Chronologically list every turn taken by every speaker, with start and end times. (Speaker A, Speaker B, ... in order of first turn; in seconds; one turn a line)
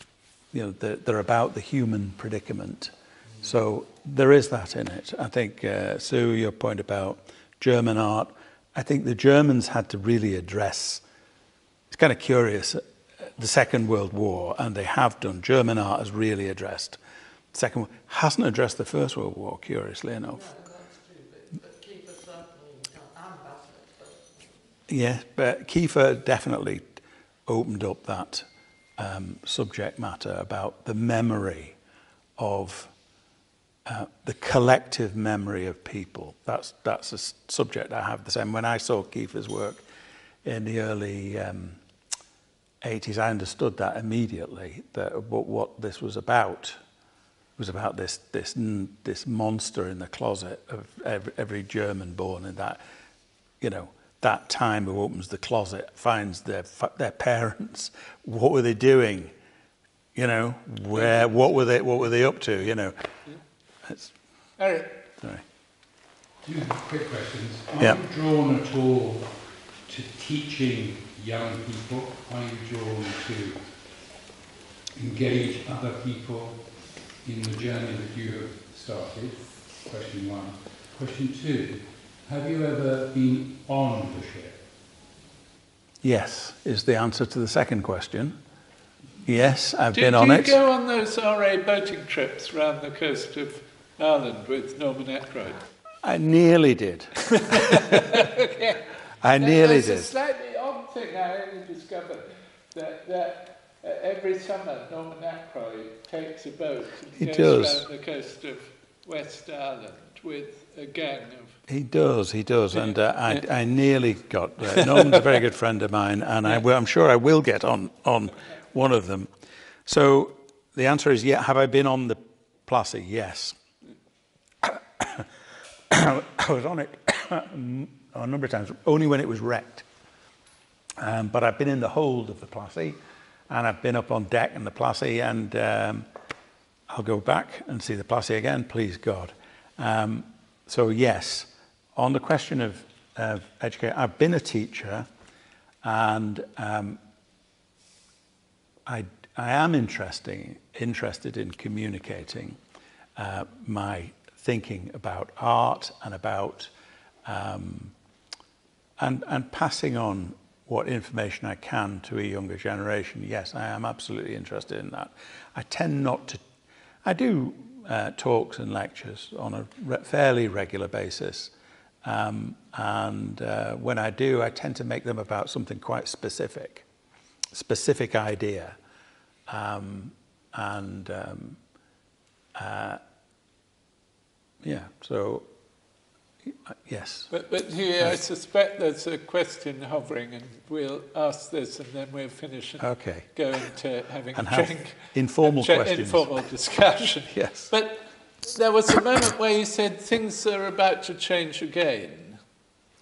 Speaker A: 0.5-11.0
Speaker A: 11.9-17.0
Speaker A: 17.5-20.4
Speaker B: 20.3-24.6
Speaker A: 24.9-31.8
Speaker A: 32.4-32.9
Speaker A: 33.9-39.8
Speaker A: 40.4-41.8
Speaker A: 42.8-46.8
Speaker A: 47.6-52.8
Speaker A: 53.6-59.3
Speaker A: 60.1-63.1
Speaker C: 60.9-61.6
Speaker A: 63.8-64.2
Speaker C: 64.6-65.0
Speaker A: 65.2-65.5
Speaker D: 66.4-74.1
Speaker D: 75.0-84.7
Speaker A: 86.0-88.4
Speaker A: 89.2-90.6
Speaker C: 89.9-95.7
Speaker A: 96.0-97.9
Speaker C: 97.3-111.6
Speaker A: 99.2-100.1
Speaker A: 107.2-107.9
Speaker A: 111.7-119.3
Speaker C: 112.8-113.5
Speaker C: 114.8-115.2
Speaker A: 119.9-123.6
Speaker A: 124.6-125.3
Speaker A: 125.9-129.9
Speaker A: 131.0-136.1
Speaker A: 136.9-145.1
Speaker A: 145.8-147.0
Speaker A: 148.9-152.6
Speaker A: 153.2-156.7
Speaker A: 157.2-157.9
Speaker A: 159.0-166.4
Speaker A: 167.0-171.5
Speaker A: 172.0-176.9
Speaker A: 177.5-178.8
Speaker A: 179.5-181.6
Speaker A: 182.5-183.0
Speaker A: 184.6-185.5
Speaker A: 186.4-187.3
Speaker C: 187.3-202.4
Speaker A: 192.8-193.3
Speaker A: 194.3-196.4
Speaker A: 197.3-197.7